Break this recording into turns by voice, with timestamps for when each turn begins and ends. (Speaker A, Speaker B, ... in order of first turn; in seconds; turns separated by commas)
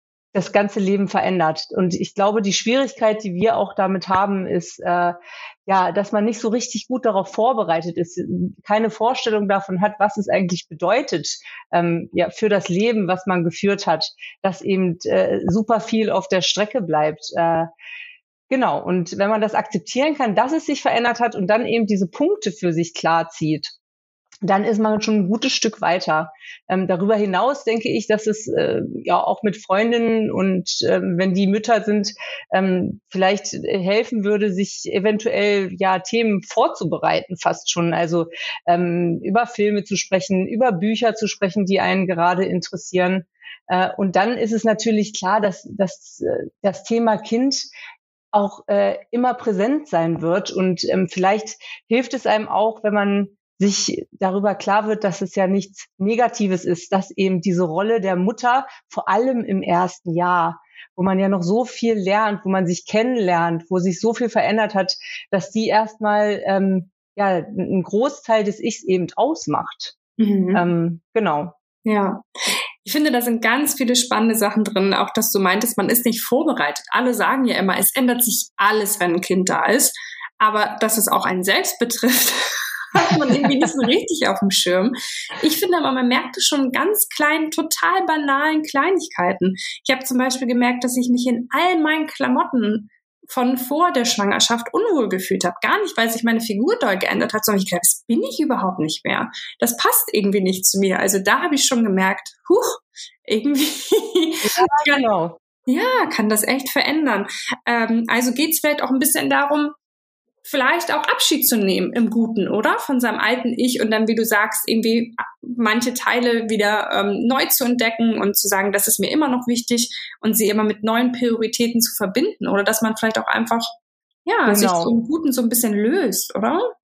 Speaker A: 0.3-17.7, Speaker A: 18.5-23.7, Speaker A: 24.4-47.7, Speaker A: 48.3-69.9, Speaker B: 70.2-70.7, Speaker A: 70.5-71.5, Speaker B: 71.8-72.2, Speaker B: 72.8-105.0, Speaker A: 104.4-105.4, Speaker B: 105.7-109.7, Speaker B: 110.4-123.7, Speaker B: 124.2-126.6, Speaker A: 124.5-124.9